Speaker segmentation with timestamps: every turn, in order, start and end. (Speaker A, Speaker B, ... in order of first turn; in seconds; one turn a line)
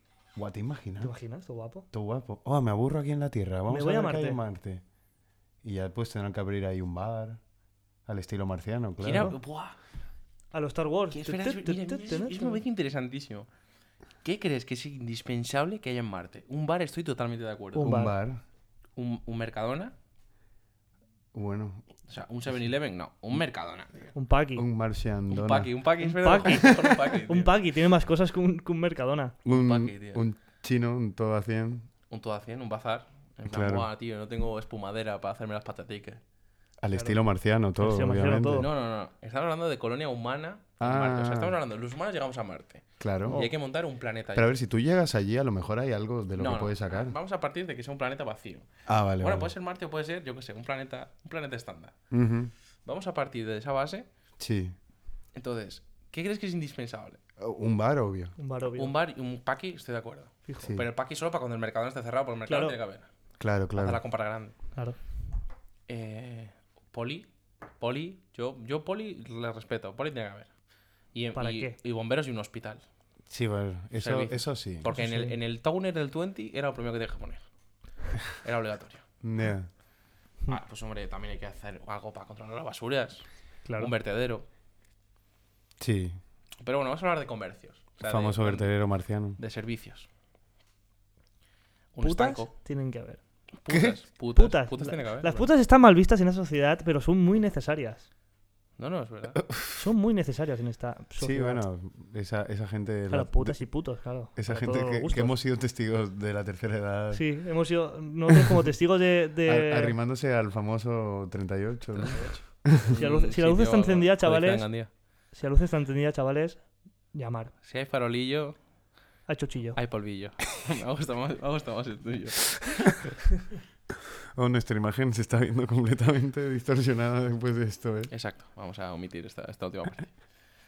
Speaker A: 0.4-1.1
Speaker B: 1.0-1.9
Speaker A: 1.9-4.8
Speaker B: 3.7-4.4
Speaker A: 5.6-7.4
Speaker A: 8.1-9.3
Speaker C: 9.0-9.8
Speaker B: 10.5-12.6
Speaker C: 11.1-13.5
Speaker C: 14.2-17.9
Speaker B: 17.8-18.2
Speaker A: 17.8-18.4
Speaker C: 19.0-19.9
Speaker A: 21.3-21.9
Speaker C: 22.1-24.1
Speaker B: 24.1-24.6
Speaker A: 24.6-25.7
Speaker C: 25.3-27.5
Speaker B: 26.0-29.4
Speaker A: 29.4-31.9
Speaker C: 29.5-30.2
Speaker C: 32.1-36.2
Speaker A: 33.5-33.9
Speaker A: 36.8-38.7
Speaker B: 36.9-37.2
Speaker B: 37.8-38.7
Speaker C: 38.6-44.5
Speaker A: 40.8-41.6
Speaker A: 43.0-43.4
Speaker B: 43.3-43.5
Speaker A: 44.3-47.1
Speaker C: 46.4-48.7
Speaker A: 48.9-49.5
Speaker C: 49.2-51.9
Speaker A: 52.1-52.5
Speaker C: 52.9-54.1
Speaker A: 54.4-54.8
Speaker C: 55.3-57.2
Speaker A: 57.4-58.3
Speaker B: 58.4-58.9
Speaker C: 58.8-63.1
Speaker B: 60.5-60.7
Speaker A: 60.6-60.9
Speaker B: 62.5-62.8
Speaker A: 63.4-64.0
Speaker C: 63.7-64.6
Speaker C: 65.9-70.5
Speaker C: 71.1-72.8
Speaker B: 71.4-71.8
Speaker A: 73.3-74.9
Speaker C: 74.0-77.4
Speaker B: 74.9-75.4
Speaker C: 78.2-79.0
Speaker A: 79.2-79.7
Speaker C: 80.5-84.5
Speaker B: 83.7-83.9
Speaker A: 85.8-86.2
Speaker C: 86.6-88.7
Speaker A: 88.0-89.4
Speaker C: 89.4-90.1
Speaker C: 91.9-92.5
Speaker B: 92.0-93.2
Speaker C: 93.6-95.5
Speaker A: 93.7-94.0
Speaker B: 94.3-98.1
Speaker C: 98.8-99.4
Speaker A: 99.4-99.9
Speaker B: 99.7-101.6
Speaker A: 101.2-103.7
Speaker B: 103.1-105.3
Speaker A: 104.3-107.2
Speaker B: 107.1-110.0
Speaker A: 109.5-112.9
Speaker C: 111.9-114.9
Speaker B: 113.0-116.6
Speaker B: 117.1-117.5
Speaker C: 117.6-118.6
Speaker B: 119.3-119.8
Speaker C: 119.8-123.0
Speaker A: 124.3-128.1
Speaker C: 128.1-130.2